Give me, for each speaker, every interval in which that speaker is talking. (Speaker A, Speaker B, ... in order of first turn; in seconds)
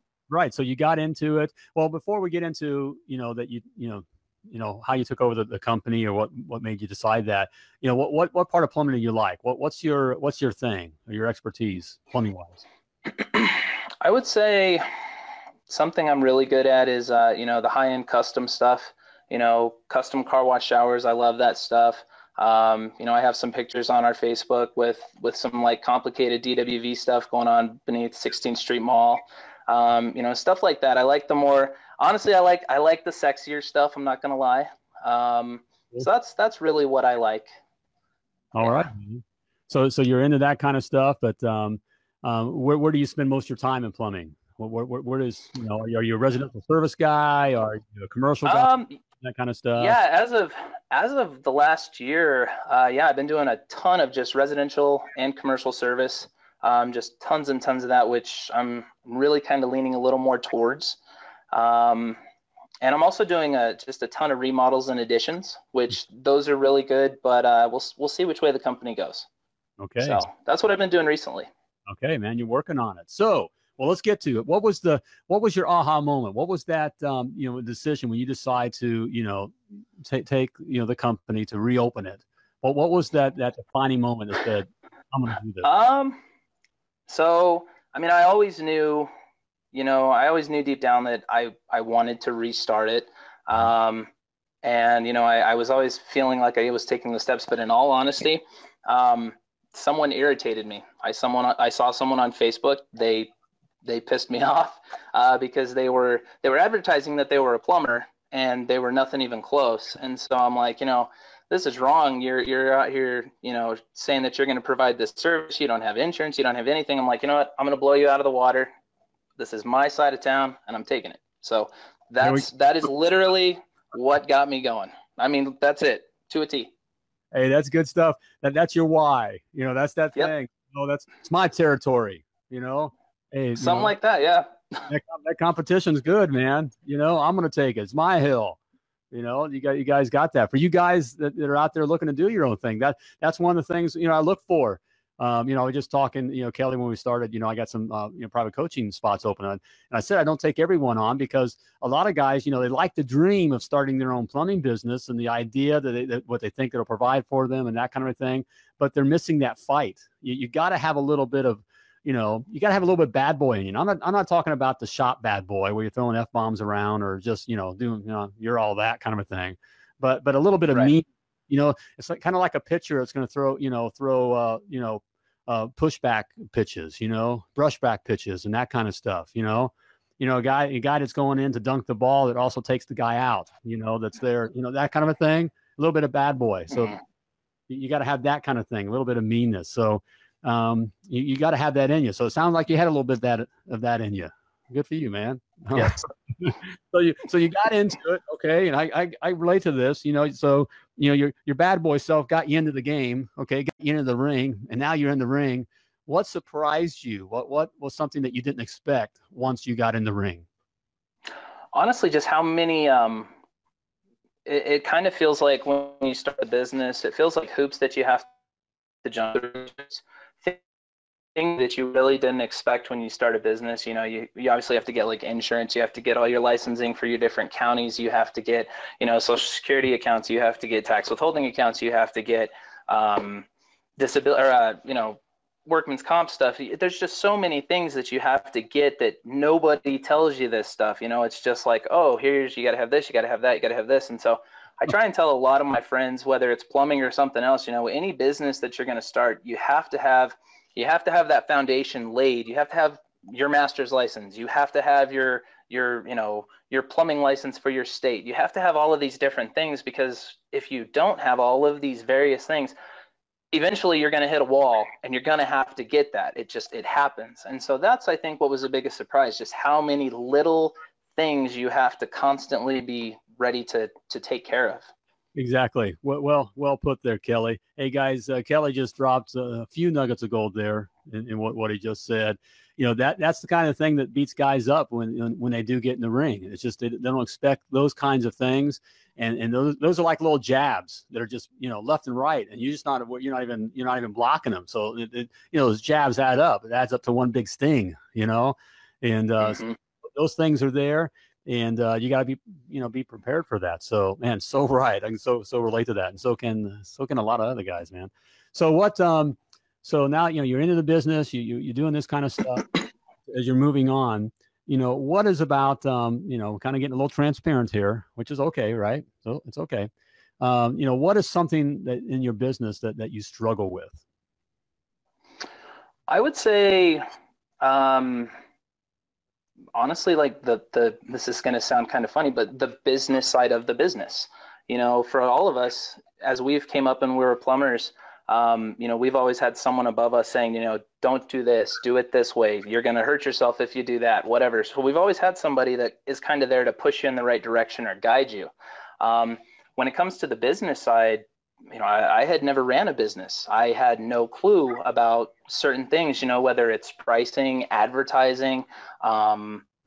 Speaker A: 0.3-12.6, 38.5-50.0, 69.8-70.2, 71.9-85.7, 122.2-122.5, 127.3-133.9, 134.9-138.6, 139.1-187.0, 187.7-210.5, 275.4-299.6, 300.1-312.8, 313.3-319.9, 320.4-324.0
Speaker B: 13.1-14.8, 15.7-37.5, 38.6-38.9, 48.5-49.0, 49.8-61.0, 61.5-62.2, 62.8-69.3, 70.0-71.5, 85.6-86.2, 87.1-89.1, 89.7-94.1, 94.6-103.3, 103.8-118.7, 119.4-126.7, 133.6-134.8, 195.8-196.0, 211.7-213.3, 214.5-218.3, 219.0-220.6, 221.3-262.8, 263.5-274.9, 299.4-299.8, 326.1-327.0, 327.6-328.3, 329.8-359.7